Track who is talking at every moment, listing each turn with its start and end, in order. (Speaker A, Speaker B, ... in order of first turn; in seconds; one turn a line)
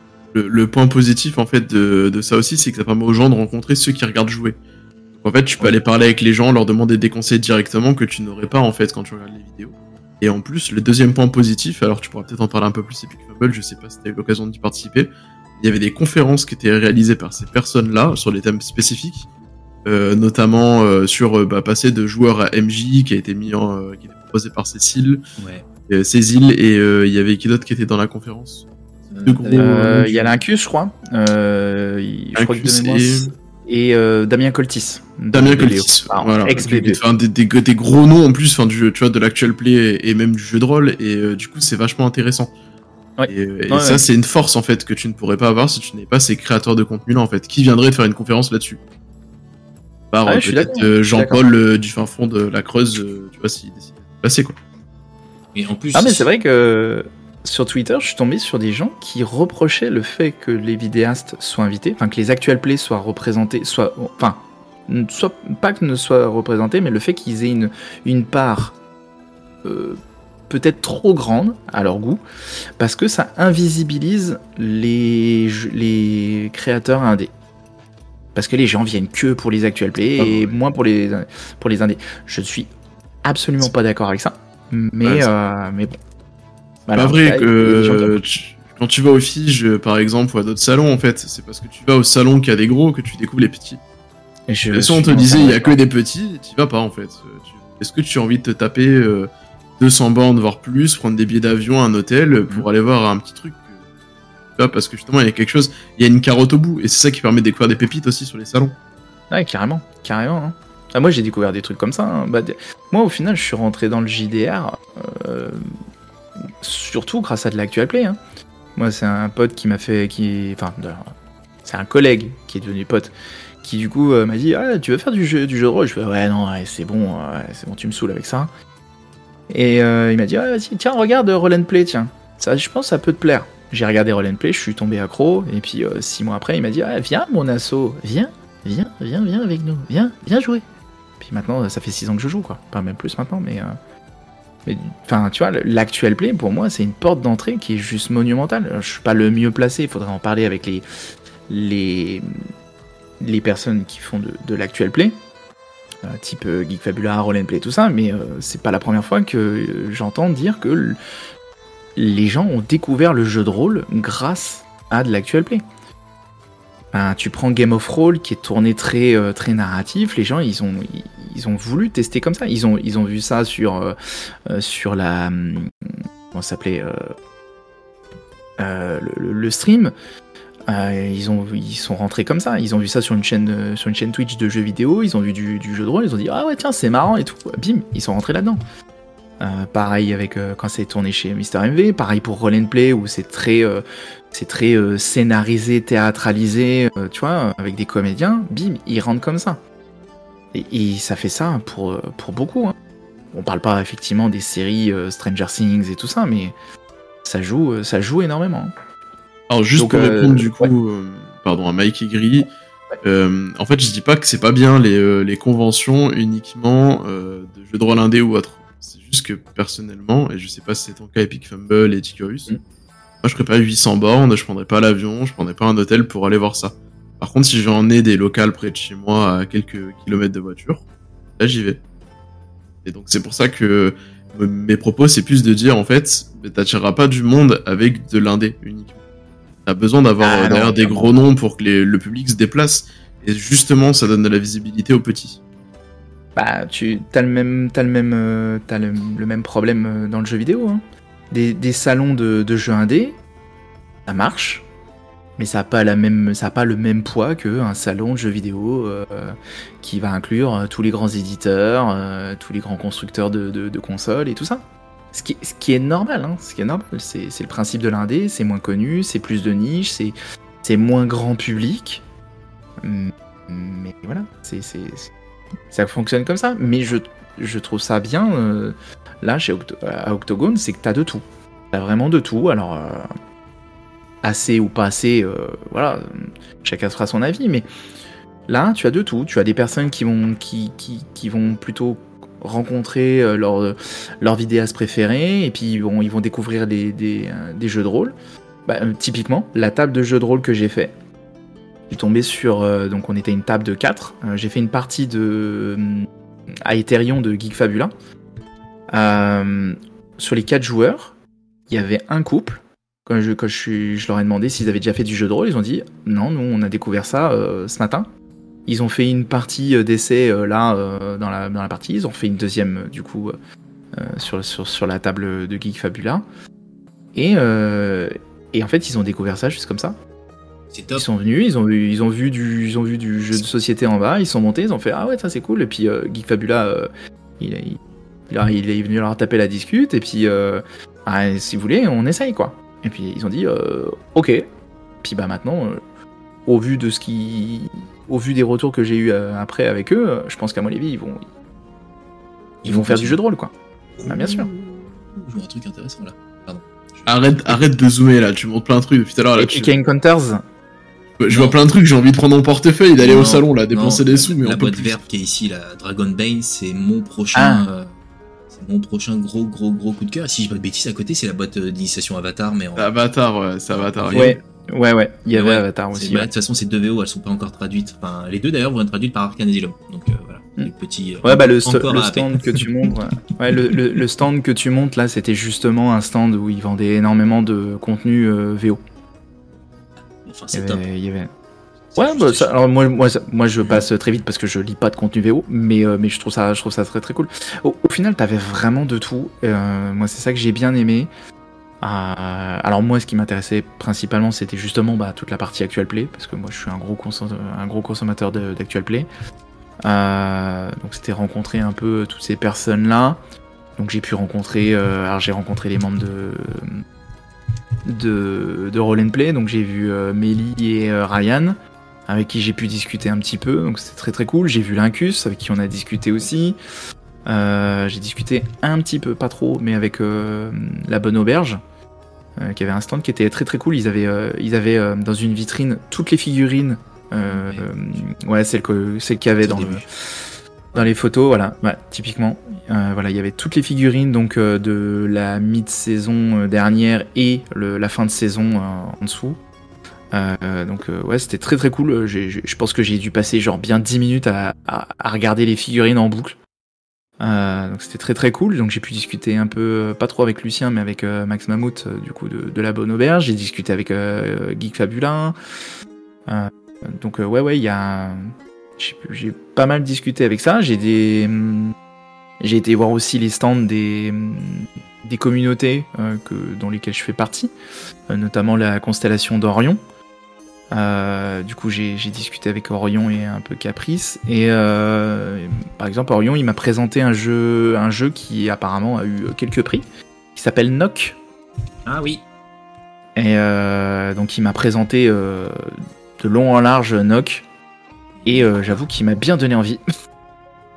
Speaker A: 0.3-4.6
Speaker A: 5.2-19.3
Speaker A: 19.9-25.2
Speaker B: 25.4-25.7
Speaker A: 25.9-28.6
Speaker B: 29.1-29.7
Speaker A: 29.2-30.4
Speaker C: 29.5-37.0
Speaker A: 32.4-33.3
Speaker A: 35.3-42.5
Speaker C: 43.2-44.1
Speaker A: 43.3-48.8
Speaker A: 50.1-54.6
Speaker C: 50.3-51.5
Speaker B: 55.5-56.3
Speaker C: 55.9-68.8
Speaker C: 69.6-72.2
Speaker C: 72.8-77.3
Speaker C: 78.3-82.7
Speaker A: 80.2-80.6
Speaker C: 83.2-86.0
Speaker C: 86.9-88.2
Speaker A: 86.9-93.8
Speaker C: 94.5-95.7
Speaker A: 94.7-103.8
Speaker A: 104.6-108.8
Speaker C: 109.3-115.7
Speaker C: 116.5-118.2
Speaker C: 118.8-121.1
Speaker C: 121.6-128.5
Speaker C: 129.5-140.7
Speaker C: 141.2-143.8
Speaker C: 144.7-150.9
Speaker C: 151.5-152.3
Speaker C: 153.2-155.2
Speaker C: 156.0-161.0
Speaker C: 162.0-165.6
Speaker C: 166.9-177.1
Speaker C: 178.6-179.9
Speaker C: 180.7-188.6
Speaker C: 189.4-199.6
Speaker C: 200.5-202.8
Speaker C: 203.3-206.6
Speaker C: 207.2-208.7
Speaker A: 209.5-212.5
Speaker C: 209.8-210.7
Speaker A: 213.0-222.5
Speaker A: 223.2-230.8
Speaker A: 231.4-231.8
Speaker A: 232.8-239.0
Speaker A: 239.7-245.4
Speaker C: 240.2-241.1
Speaker C: 246.4-253.2
Speaker C: 254.1-254.7
Speaker C: 255.4-272.1
Speaker C: 272.8-275.1
Speaker C: 275.7-283.1
Speaker C: 284.2-287.6
Speaker C: 288.5-298.1
Speaker C: 298.7-300.9
Speaker C: 301.9-306.1
Speaker C: 306.6-307.9
Speaker C: 308.9-311.1
Speaker C: 311.7-318.1
Speaker C: 318.7-323.4
Speaker C: 323.9-326.2
Speaker C: 327.1-330.0
Speaker B: 330.7-331.1
Speaker C: 330.9-337.8
Speaker C: 338.3-344.4
Speaker C: 345.0-345.8
Speaker C: 346.5-351.2
Speaker B: 352.6-353.2
Speaker C: 352.7-353.5
Speaker B: 354.0-357.5
Speaker C: 354.1-354.5
Speaker A: 357.1-359.7
Speaker C: 359.4-360.4
Speaker A: 361.2-365.0
Speaker B: 361.3-361.6
Speaker B: 363.0-367.9
Speaker C: 367.4-367.6
Speaker B: 368.5-372.9
Speaker A: 372.8-374.4
Speaker B: 373.8-374.4
Speaker C: 374.1-376.3
Speaker B: 375.3-383.7
Speaker C: 381.2-388.8
Speaker B: 390.2-390.8
Speaker C: 390.5-391.3
Speaker B: 391.9-392.6
Speaker C: 392.0-401.1
Speaker B: 393.6-393.9
Speaker C: 401.8-409.1
Speaker C: 409.8-413.2
Speaker C: 413.8-416.8
Speaker C: 417.9-421.6
Speaker C: 422.1-426.6
Speaker C: 427.2-431.6
Speaker C: 432.4-439.9
Speaker B: 437.2-437.7
Speaker B: 439.4-439.9
Speaker C: 440.8-449.4
Speaker C: 450.1-456.4
Speaker C: 457.2-465.4
Speaker C: 466.3-471.8
Speaker C: 472.4-477.5
Speaker C: 478.1-479.8
Speaker C: 480.7-491.2
Speaker B: 491.9-492.2
Speaker C: 493.2-497.5
Speaker B: 498.2-498.8
Speaker C: 498.3-499.8